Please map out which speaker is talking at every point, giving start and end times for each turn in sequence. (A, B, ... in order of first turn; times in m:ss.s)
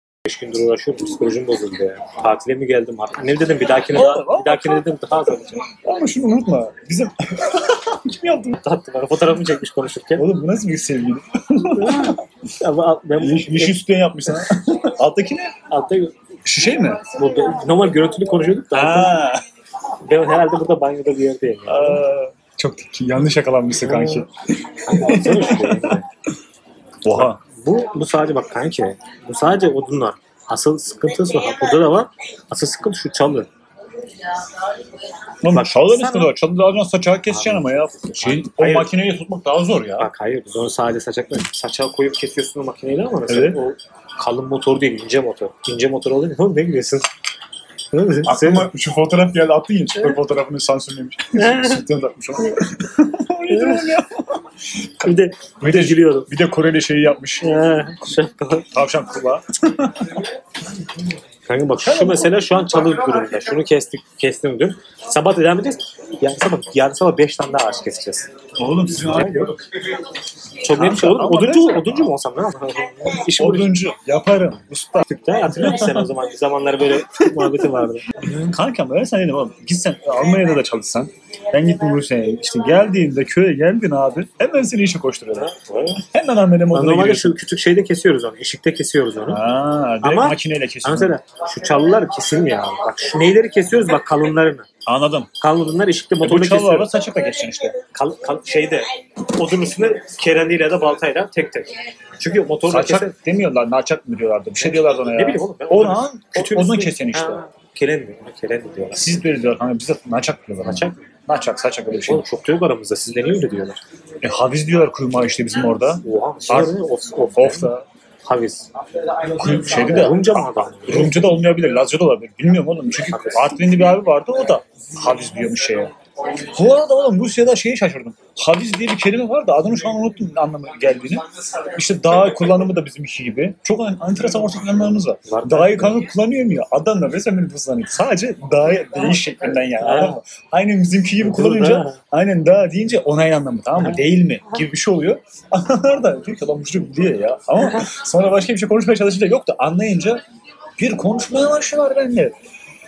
0:00.2-0:05.7 A
0:03.9-0:04.9 B
0:05.7-0:08.6 B
0:08.6-0:10.2 A
0:10.2-0:12.2 B
0:11.8-0:14.4 A
0:13.2-0:15.5 B
0:15.7-0:16.1 A
0:16.4-0:17.0 B
0:17.0-0:19.2 A
0:18.7-0:19.4 B
0:20.0-0:22.0 A
0:21.7-0:26.0 B
0:23.8-0:24.2 A
0:24.8-0:26.1 A
0:27.0-0:27.4 B
0:27.1-0:33.5 A
0:35.4-0:40.1 B
0:35.5-0:36.3 A
0:37.3-0:38.9 A
0:40.0-0:47.1 A
0:43.3-0:43.6 B
0:47.9-0:48.7 A
0:48.2-0:57.5 B
0:51.3-0:51.8 A
0:53.5-0:54.0 A
0:55.0-0:56.3 A
0:57.4-0:58.7 A
0:58.7-1:00.2 B
1:01.4-1:08.3 A
1:01.8-1:02.9 B
1:08.6-1:09.5 B
1:08.9-1:09.6 A
1:10.6-1:13.7 A
1:10.7-1:12.1 B
1:13.4-1:16.1 B
1:15.0-1:18.3 A
1:16.9-1:25.5 B
1:25.3-1:26.0 A
1:26.1-1:27.4 B
1:26.7-1:29.4 A
1:29.3-1:31.2 B
1:30.0-1:34.7 A
1:34.8-1:35.3 B
1:35.4-1:36.9 A
1:36.2-1:37.8 B
1:37.9-1:43.1 A
1:42.7-1:47.4 B
1:44.6-1:49.2 A
1:48.9-1:52.3 B
1:50.6-1:51.0 A
1:52.1-1:53.8 A
1:54.2-1:56.8 B
1:56.0-1:57.7 A
1:57.3-1:57.8 B
1:58.2-1:58.7 A
1:59.4-2:05.9 B
1:59.6-2:01.3 A
2:03.0-2:03.6 A
2:06.4-2:30.2 B
2:15.3-2:16.0 A
2:19.8-2:20.2 A
2:21.2-2:22.0 A
2:23.8-2:24.6 A
2:30.8-2:32.3 B